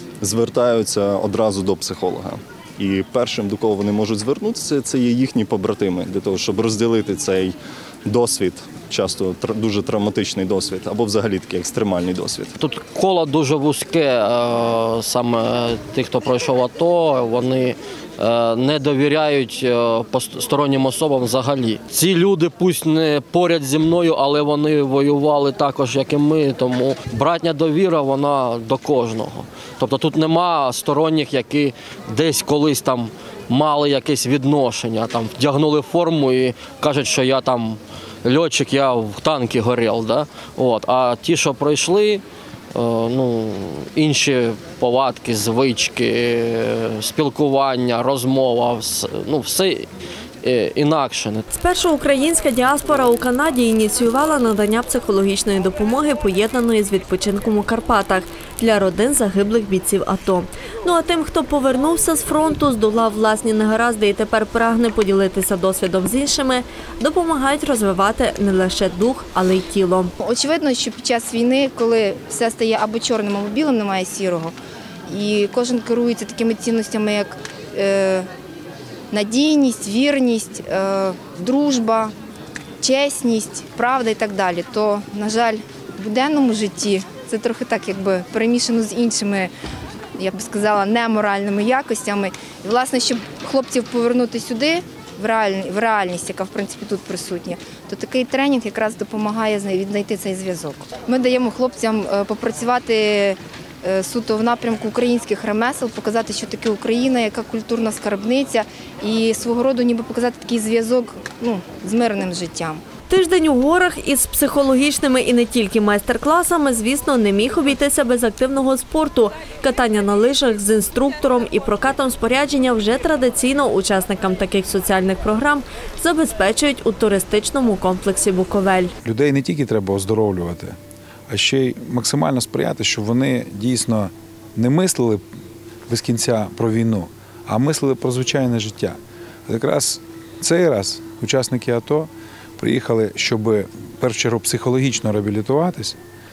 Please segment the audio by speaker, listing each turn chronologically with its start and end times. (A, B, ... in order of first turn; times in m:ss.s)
0:00.2-0:12.6 A
0:12.6-0:42.2 B
0:42.8-0:49.9 B
0:50.4-0:51.4 B
0:51.5-1:10.1 C
1:10.2-1:14.6 D
1:15.1-1:18.3 D
1:19.1-1:22.1 D
1:22.8-1:29.5 D
1:30.2-1:52.8 D
1:53.1-2:08.9 C
2:09.0-2:10.8 E
2:11.3-2:15.2 E
2:15.9-2:26.0 E